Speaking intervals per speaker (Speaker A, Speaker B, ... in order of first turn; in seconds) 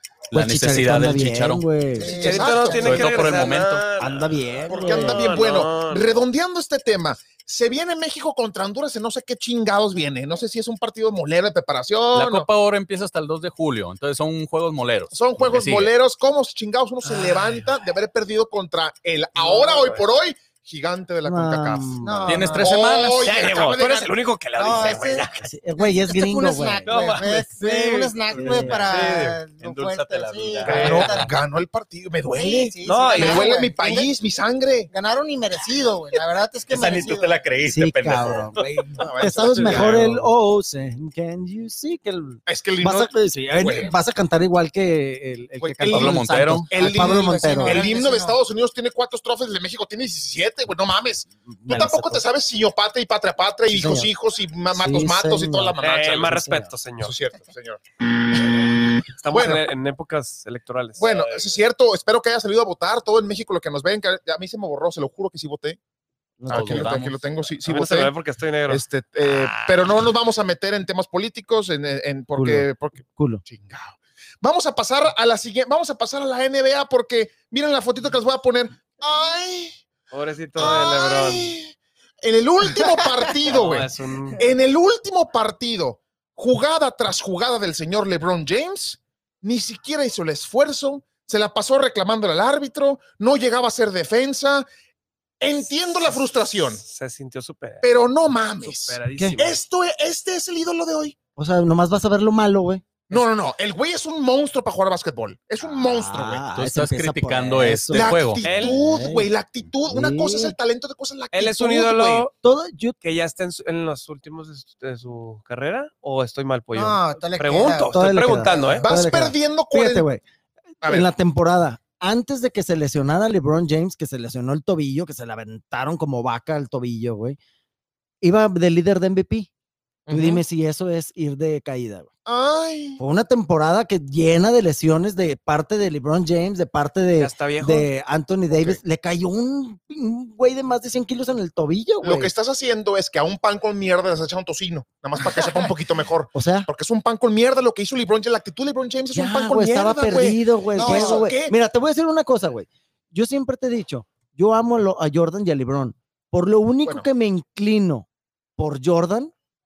Speaker A: 0.3-1.6, 2.7-3.9, 12.1-15.9, 22.2-23.3, 28.3-31.3, 36.7-39.0, 39.6-40.1, 45.8-46.7, 66.5-67.5, 106.5-108.4
Speaker B: 0.3-2.3, 4.0-5.3, 21.2-22.6, 25.4-26.9, 28.3-28.9, 37.6-47.8, 51.5-52.2, 53.7-54.1, 54.7-56.7, 66.4-67.1, 72.3-73.4, 101.3-102.8, 105.6-109.3, 109.8-110.6, 112.4-112.9, 117.9-120.2, 120.8-127.4, 128.2-129.5, 130.1-132.1, 133.0-142.3, 146.3-146.7, 149.1-158.1, 158.6-159.3
Speaker C: 1.9-3.2, 22.0-22.7, 24.6-31.3, 32.3-34.1, 34.9-37.4, 46.8-48.4, 116.7-117.9, 150.7-151.3
Speaker D: 2.0-6.2, 17.0-17.6, 19.4-20.0, 23.2-25.5, 26.8-28.2, 28.9-29.3, 30.8-31.1, 32.8-33.5, 55.8-57.1, 59.2-61.6, 67.6-69.8, 80.1-81.5, 83.4-84.4, 96.7-97.8, 98.6-99.6, 108.4-108.8, 111.3-112.3, 113.0-118.8, 137.2-137.9
Speaker E: 2.1-3.4, 4.7-12.5, 15.1-22.0, 22.6-24.1, 30.6-34.9, 39.0-40.1, 42.5-44.0, 45.6-56.4, 57.0-57.8, 58.3-58.7, 59.3-59.6, 61.0-65.8, 66.5-68.1, 68.7-79.8, 80.6-94.7, 95.4-96.8, 97.8-101.1, 103.1-106.4, 107.9-112.3, 118.8-120.1, 120.8-121.1, 130.1-130.4, 132.2-133.0, 138.5-138.8, 142.0-151.5